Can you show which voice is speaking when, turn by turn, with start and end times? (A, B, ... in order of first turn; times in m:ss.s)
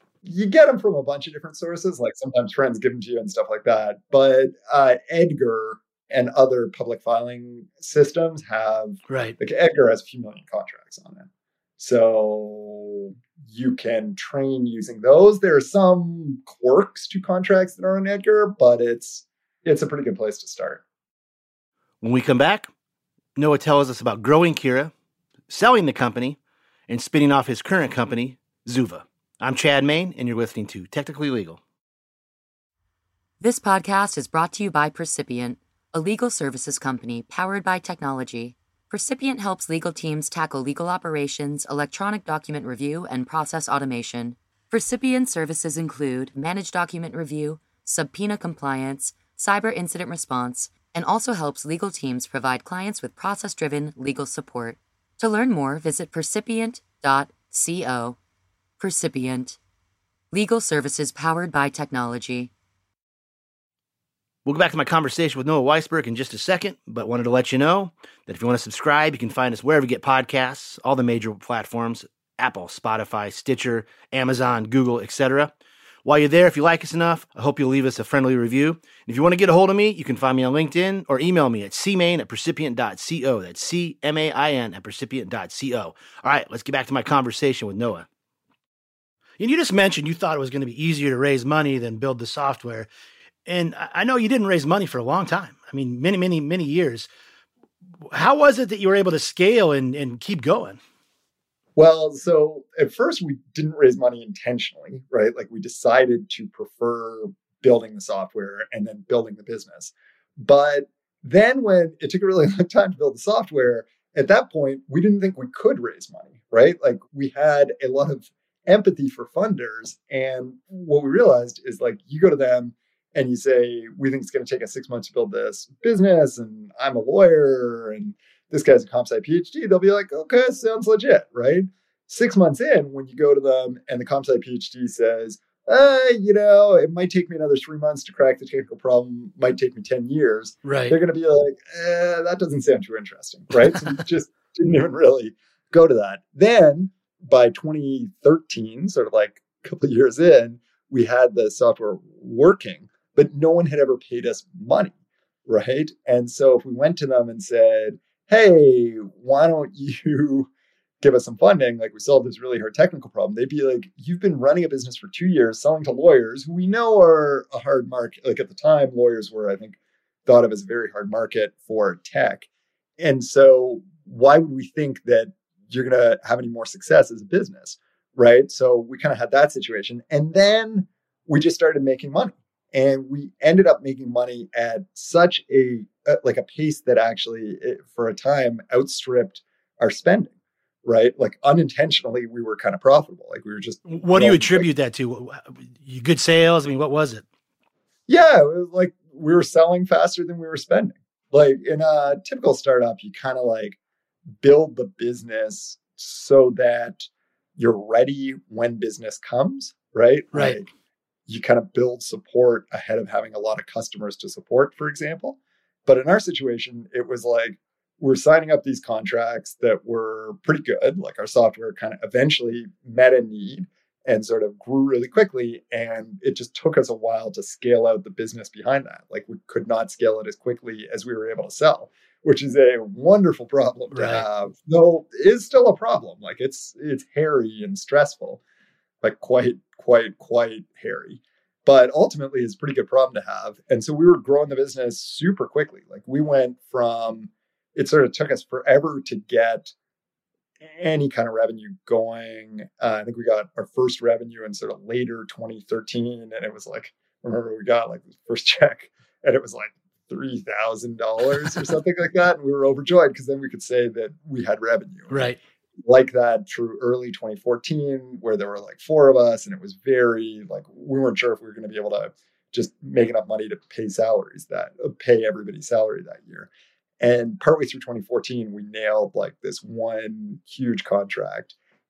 0:00.2-0:20.8 A
0:09.1-0:09.4 B
0:22.0-0:22.7 B
0:23.4-0:24.9 B
0:25.5-0:31.6 B
0:33.4-0:58.2 C
0:58.8-0:59.6 C
1:00.3-1:02.5 C
1:04.4-1:15.5 B
1:16.0-1:28.1 B
1:29.4-1:32.9 B
1:33.4-1:37.1 B
1:38.1-1:40.8 B
1:41.8-2:34.9 A
2:20.6-2:21.0 B
2:35.5-2:40.5 A
2:41.0-2:52.5 A
2:53.0-3:10.3 A
3:10.8-3:14.7 A
3:13.8-3:17.2 B
3:18.1-3:23.8 A
3:24.4-3:30.7 A
3:30.3-3:30.6 B
3:31.3-3:58.4 A
3:53.9-3:54.2 B
3:59.0-4:09.7 A
4:10.6-4:25.3 A
4:25.1-4:25.4 B
4:25.8-4:36.5 A
4:37.0-4:41.5 A